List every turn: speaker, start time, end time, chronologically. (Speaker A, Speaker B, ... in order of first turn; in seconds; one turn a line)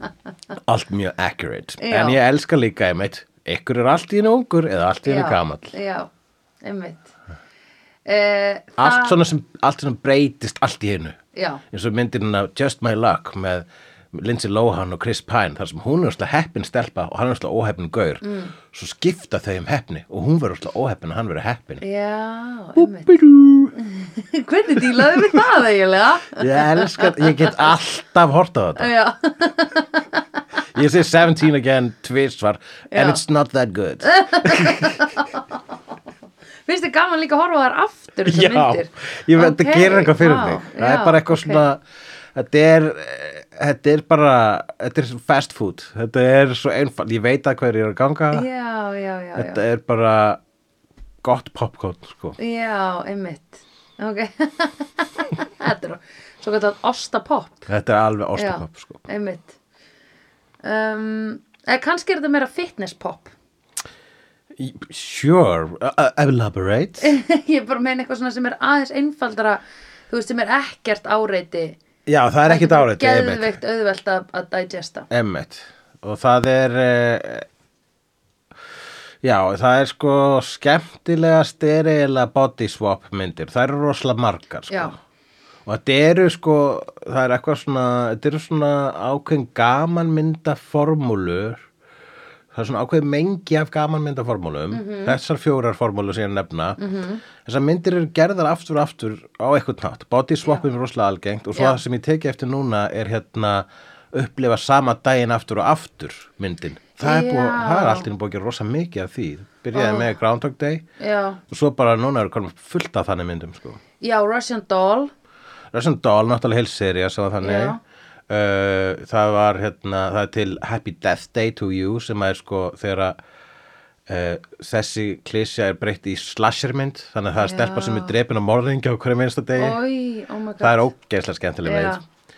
Speaker A: 0.6-5.7
Speaker B: 1.8-2.2
Speaker B: 5.1-6.1
Speaker B: 6.6-7.1
Speaker B: 8.1-9.2
Speaker A: 8.8-11.2
Speaker B: 11.3-11.6
Speaker A: 11.7-21.8
Speaker B: 18.2-18.5
Speaker B: 21.8-23.2
Speaker A: 22.8-23.7
Speaker B: 23.8-27.6
Speaker A: 24.9-25.4
Speaker A: 26.3-28.9
Speaker B: 28.8-30.2
Speaker A: 30.7-35.0
Speaker B: 32.9-33.2
Speaker B: 34.0-35.4
Speaker B: 36.7-41.6
Speaker A: 38.3-41.8
Speaker A: 42.4-48.5
Speaker B: 48.3-49.6
Speaker A: 49.4-50.4
Speaker A: 51.2-52.4
Speaker B: 52.4-57.7
Speaker A: 57.7-59.0
Speaker B: 58.4-59.6
Speaker B: 60.6-63.3
Speaker A: 64.6-67.2
Speaker B: 67.0-71.8
Speaker A: 72.1-73.6
Speaker B: 72.5-75.1
Speaker A: 75.1-77.5
Speaker A: 79.2-85.0
Speaker B: 84.7-85.0
Speaker A: 85.7-91.6
Speaker A: 92.5-96.8
Speaker B: 94.7-95.2
Speaker B: 96.8-97.2
Speaker A: 97.4-110.8
Speaker B: 107.0-108.1
Speaker B: 109.8-110.1
Speaker B: 111.0-111.4
Speaker A: 111.5-113.8
Speaker B: 114.0-115.1
Speaker A: 115.7-117.8
Speaker B: 117.4-117.8
Speaker A: 118.3-123.2
Speaker A: 124.1-129.8
Speaker B: 127.4-128.2
Speaker B: 129.6-130.9
Speaker A: 130.6-132.0
Speaker B: 131.6-132.0